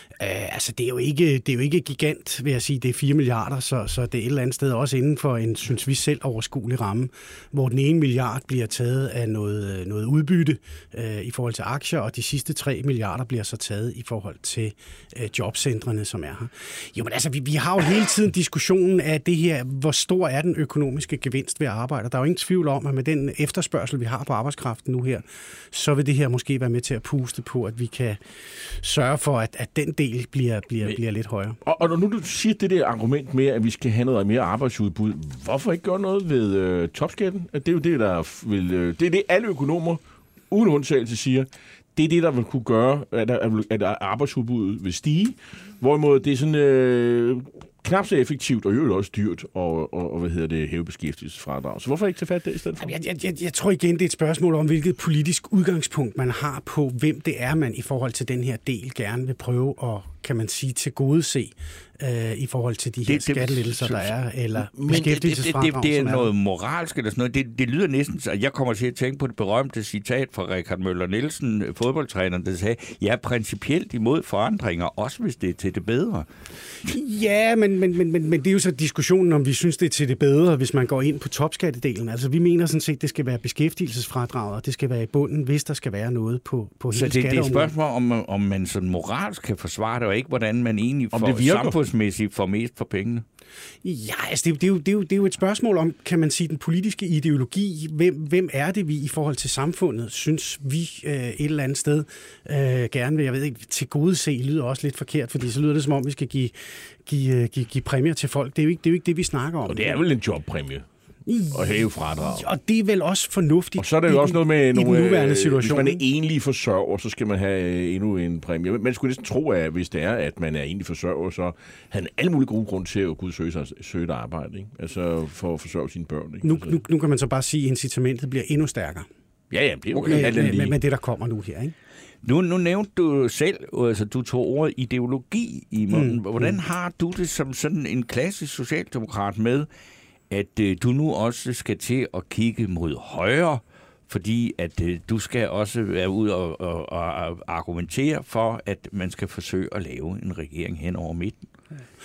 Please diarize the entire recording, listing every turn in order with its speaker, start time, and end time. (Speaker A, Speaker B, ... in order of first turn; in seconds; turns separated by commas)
Speaker A: 0.2-31.6, Speaker B: 31.6-40.0, Speaker B: 40.5-52.9, Speaker A: 52.8-66.3, Speaker C: 63.1-64.1, Speaker C: 64.8-76.3, Speaker A: 76.8-87.7, Speaker C: 86.9-93.2, Speaker B: 91.1-91.8, Speaker A: 93.8-110.0, Speaker B: 109.7-110.8, Speaker A: 111.3-116.0, Speaker B: 111.5-112.5, Speaker B: 113.8-126.8, Speaker A: 126.4-129.1, Speaker B: 129.5-130.8, Speaker C: 129.9-130.7, Speaker A: 130.1-131.7, Speaker C: 132.2-139.7, Speaker A: 135.9-136.6, Speaker C: 140.3-151.5